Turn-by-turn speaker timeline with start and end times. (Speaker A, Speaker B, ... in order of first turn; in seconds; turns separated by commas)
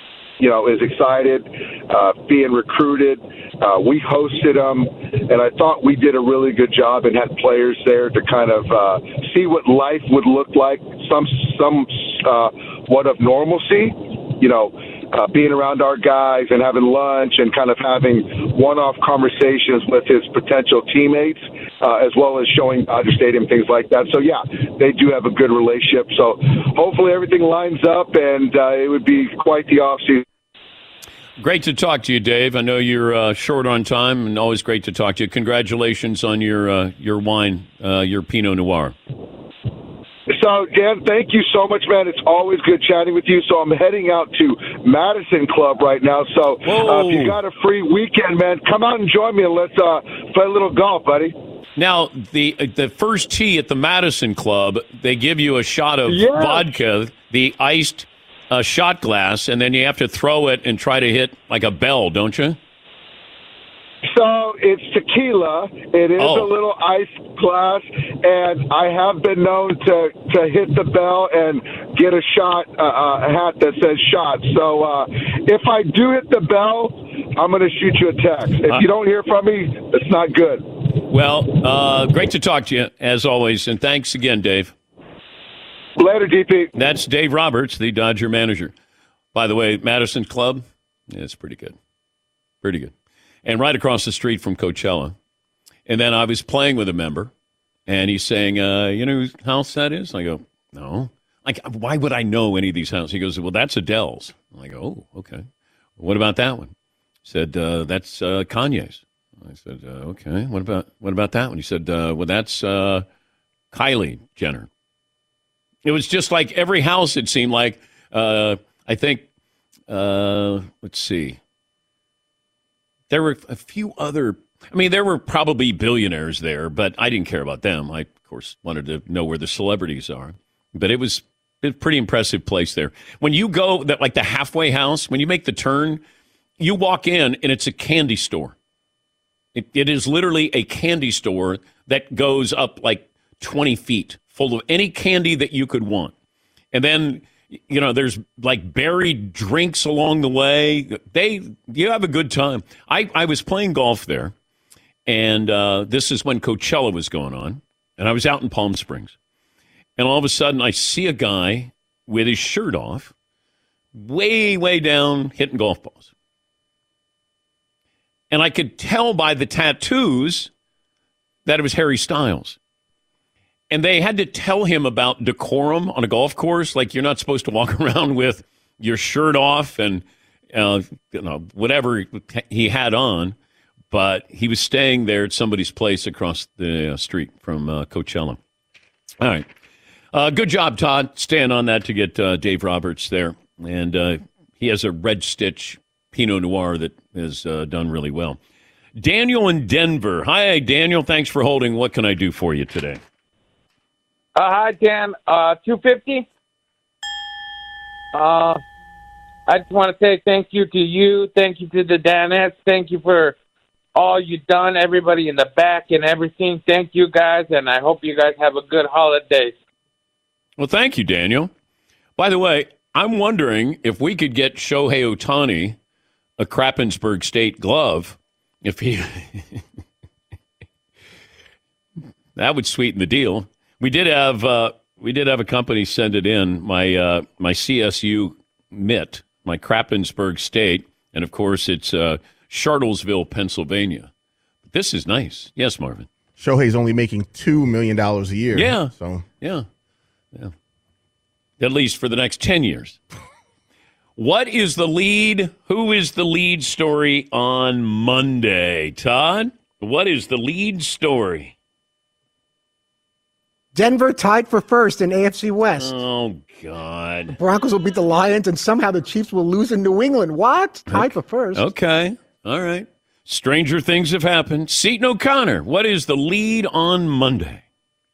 Speaker A: 0.4-30.2, Speaker B: 31.4-38.9, Speaker A: 40.3-51.3, Speaker B: 46.6-47.4, Speaker B: 51.8-62.6, Speaker A: 56.1-56.7, Speaker A: 64.1-80.7, Speaker B: 66.2-66.5, Speaker B: 81.1-84.7, Speaker A: 86.0-86.7, Speaker B: 86.7-88.7, Speaker B: 89.3-91.8, Speaker B: 92.6-92.9, Speaker B: 93.4-95.1, Speaker B: 95.9-97.3, Speaker B: 97.9-105.4, Speaker B: 106.0-106.7, Speaker B: 107.2-113.0, Speaker B: 113.7-114.7, Speaker B: 115.8-119.2, Speaker B: 119.9-121.4, Speaker B: 123.1-136.0, Speaker B: 136.6-138.5, Speaker B: 139.5-146.1, Speaker B: 146.7-154.3, Speaker B: 155.1-159.1, Speaker B: 160.0-163.1, Speaker B: 163.9-166.1, Speaker B: 168.3-170.5, Speaker B: 171.4-172.6, Speaker B: 173.7-183.3, Speaker B: 183.9-188.4, Speaker B: 189.2-189.5, Speaker B: 190.1-198.4, Speaker B: 198.9-203.0, Speaker C: 204.3-206.3, Speaker C: 208.1-208.6, Speaker C: 209.5-213.3, Speaker C: 213.9-219.6, Speaker B: 220.6-221.5, Speaker B: 222.2-225.8, Speaker B: 226.4-229.6, Speaker B: 232.3-244.1, Speaker B: 244.7-246.1, Speaker D: 246.4-249.2, Speaker B: 248.5-249.6, Speaker B: 251.6-253.0, Speaker B: 254.2-261.5, Speaker E: 263.7-266.0, Speaker B: 265.7-267.4, Speaker E: 267.3-271.6, Speaker B: 270.9-277.6